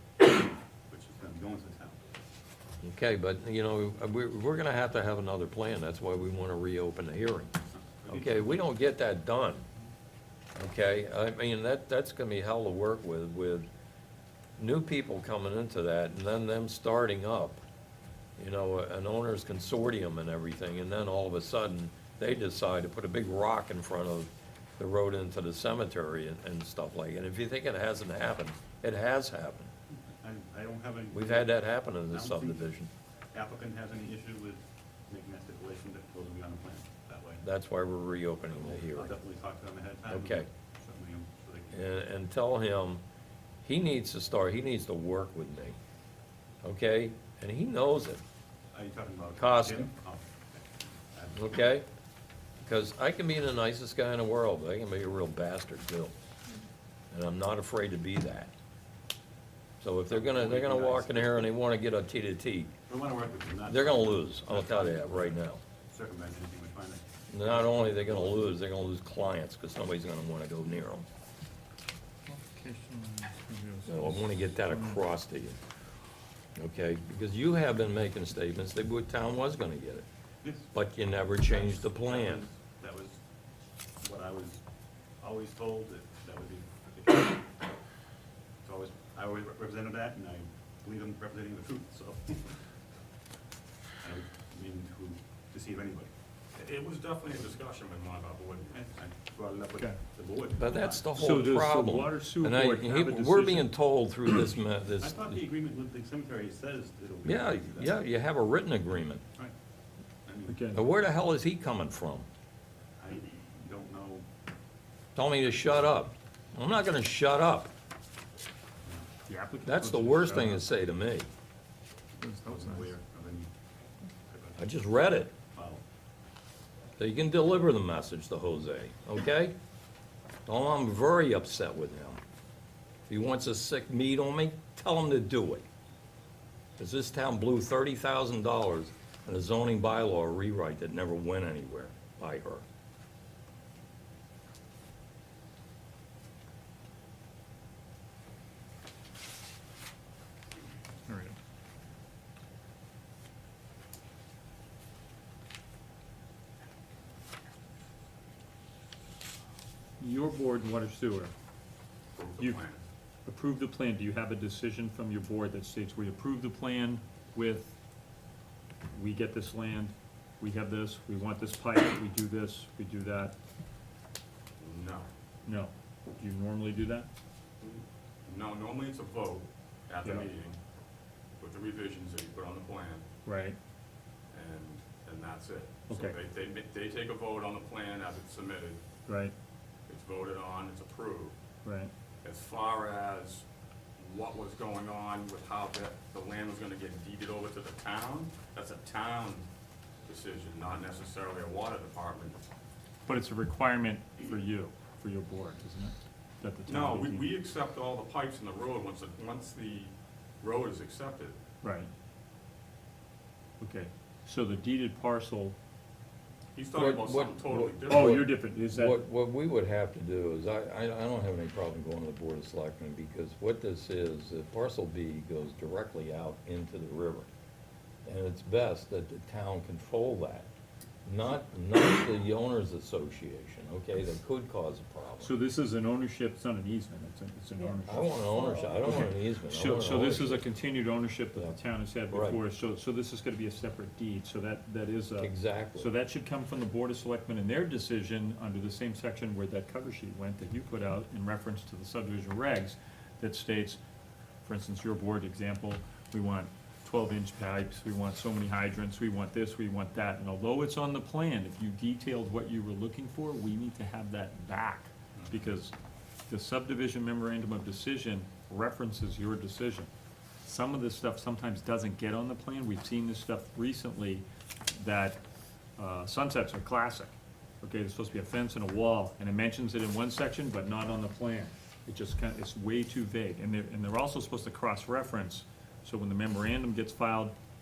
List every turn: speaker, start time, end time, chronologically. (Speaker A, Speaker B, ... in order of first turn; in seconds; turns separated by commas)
Speaker A: 0.9-2.0, Speaker B: 2.8-7.5, Speaker A: 7.8-8.6, Speaker B: 8.1-9.6, Speaker B: 10.6-13.7, Speaker B: 14.6-17.6, Speaker B: 18.4-29.7, Speaker A: 30.2-31.5, Speaker B: 31.1-32.9, Speaker A: 32.1-32.7, Speaker A: 33.3-37.4, Speaker B: 37.4-39.1, Speaker A: 38.6-41.9, Speaker B: 40.1-40.5, Speaker B: 41.7-43.0, Speaker B: 43.6-45.8, Speaker B: 46.6-48.2, Speaker A: 48.7-51.6, Speaker B: 49.4-49.9, Speaker B: 51.3-51.9, Speaker B: 52.6-56.1, Speaker B: 57.1-58.5, Speaker B: 59.8-62.7, Speaker A: 60.1-61.5, Speaker A: 62.9-68.5, Speaker B: 63.7-65.6, Speaker B: 67.3-71.1, Speaker C: 72.3-75.0, Speaker B: 73.9-75.6, Speaker B: 76.6-80.1, Speaker A: 80.4-80.7, Speaker B: 80.7-82.4, Speaker A: 81.4-83.2, Speaker A: 84.0-84.6, Speaker A: 85.2-87.5, Speaker A: 88.6-92.7, Speaker A: 94.0-96.1, Speaker D: 96.6-98.8, Speaker A: 98.7-101.4, Speaker B: 100.6-105.3, Speaker C: 101.2-103.7, Speaker A: 105.0-108.0, Speaker B: 107.2-109.2, Speaker A: 110.2-110.8, Speaker C: 110.5-110.8, Speaker B: 110.7-112.3, Speaker A: 113.0-114.3, Speaker B: 115.2-117.7, Speaker C: 119.3-120.6, Speaker B: 119.6-121.3, Speaker C: 122.2-122.9, Speaker A: 122.3-123.5, Speaker A: 124.2-124.7, Speaker B: 124.6-125.3, Speaker A: 125.5-125.8, Speaker B: 127.0-129.6, Speaker B: 130.5-132.2, Speaker B: 133.1-135.7, Speaker B: 136.8-142.6, Speaker C: 151.1-151.3, Speaker C: 160.0-161.3, Speaker D: 162.2-162.8, Speaker C: 163.3-167.8, Speaker C: 168.9-173.3, Speaker D: 174.6-175.1, Speaker C: 175.4-177.1, Speaker D: 177.6-180.6, Speaker C: 180.0-180.3, Speaker D: 181.4-183.1, Speaker C: 183.2-183.6, Speaker D: 184.3-188.8, Speaker C: 185.9-186.2, Speaker C: 189.1-189.3, Speaker D: 189.9-191.4, Speaker C: 191.6-191.9, Speaker D: 192.2-193.4, Speaker D: 194.0-199.5, Speaker D: 200.1-202.4, Speaker C: 203.1-207.3, Speaker D: 206.7-211.4, Speaker C: 211.6-211.9, Speaker C: 213.6-215.6, Speaker D: 216.6-218.2, Speaker B: 216.7-227.3, Speaker C: 217.9-219.0, Speaker B: 228.1-230.5, Speaker B: 231.1-235.3, Speaker C: 235.2-253.8, Speaker B: 237.9-240.5, Speaker B: 242.1-242.4, Speaker B: 245.2-245.9, Speaker C: 254.4-265.7, Speaker D: 265.1-265.4, Speaker C: 266.3-269.9, Speaker C: 270.4-275.2, Speaker C: 275.8-287.4